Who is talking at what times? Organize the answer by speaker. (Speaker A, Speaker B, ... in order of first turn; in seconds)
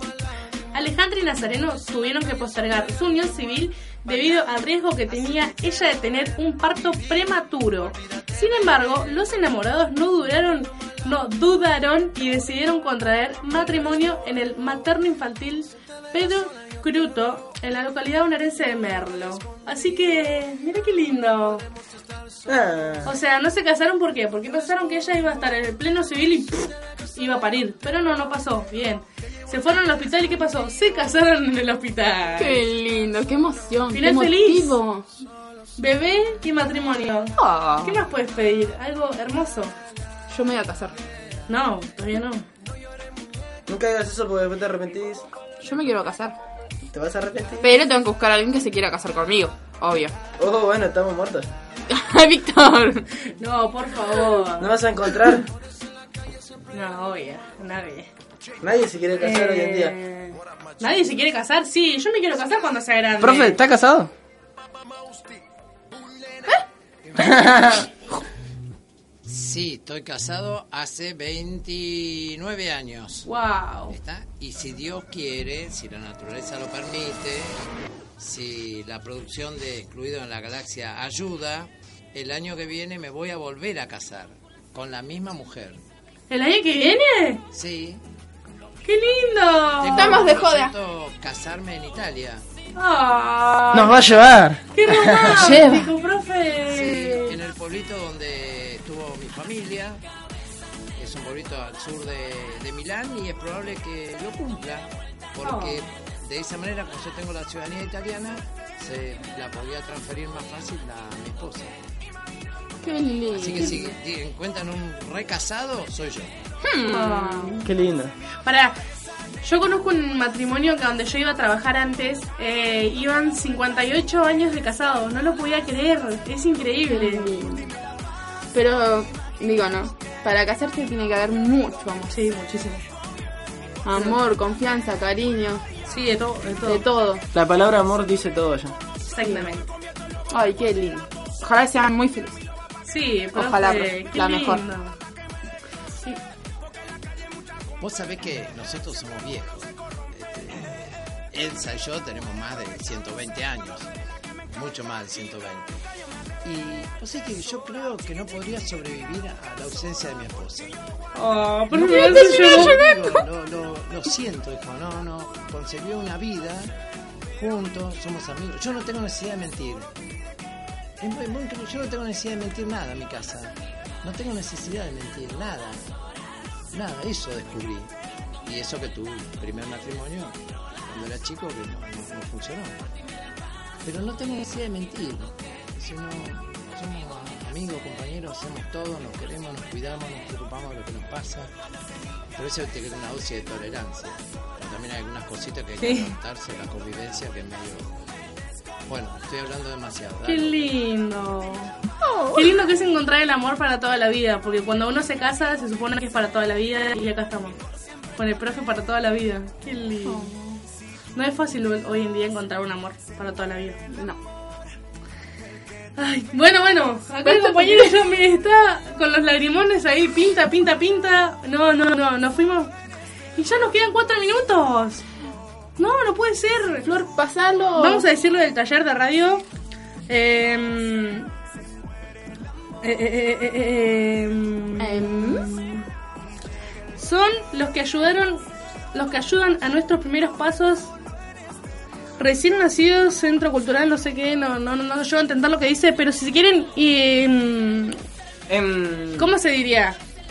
Speaker A: 0.7-21.6, 23.1-32.6, 33.9-34.8, 35.8-39.7, 41.5-42.5, 53.4-54.7, 56.7-58.1, 59.2-63.6, 73.2-74.0, 86.3-87.4, 88.8-90.3, 92.8-94.0, 94.7-97.3, 105.4-105.8, 116.9-117.6, 118.5-118.8, 119.4-127.3, 132.1-132.8, 135.9-136.8, 139.1-139.7, 142.8-145.0, 161.2-162.8, 195.8-196.1, 200.2-201.7, 202.3-207.6, 208.2-210.6, 211.2-213.8, 216.0-222.7, 223.4-225.1, 225.8-226.9, 227.8-229.4, 230.1-231.3, 232.8-235.8, 237.0-240.9, 242.2-248.0, 249.2-250.0
Speaker B: 22.5-23.1, 43.7-45.2, 46.9-47.7, 50.4-51.5, 54.6-55.5, 58.6-60.0, 63.2-64.1, 67.2-67.9, 93.7-95.8, 117.6-118.1, 137.3-138.8, 248.5-249.3
Speaker C: 32.4-35.1, 37.4-38.0, 40.3-41.0, 45.6-46.4, 47.6-50.2, 51.9-53.1, 89.9-90.7, 112.8-113.9, 116.6-117.7, 126.9-127.7, 128.5-132.1, 133.8-135.6, 136.7-137.2, 140.3-142.4, 143.3-144.6, 161.8-163.2, 202.1-202.5, 213.9-214.2, 217.2-217.9, 226.8-228.1, 234.8-235.5
Speaker D: 69.3-73.3, 73.9-77.6, 78.2-85.8, 87.5-88.0, 89.8-92.4, 96.7-100.0, 101.0-111.7, 113.3-116.3, 147.8-153.9, 154.5-155.8, 156.4-160.8, 161.7-166.7, 167.4-169.9, 171.0-175.8, 176.7-177.9, 178.4-182.8, 183.8-191.5, 192.3-198.0, 198.9-200.6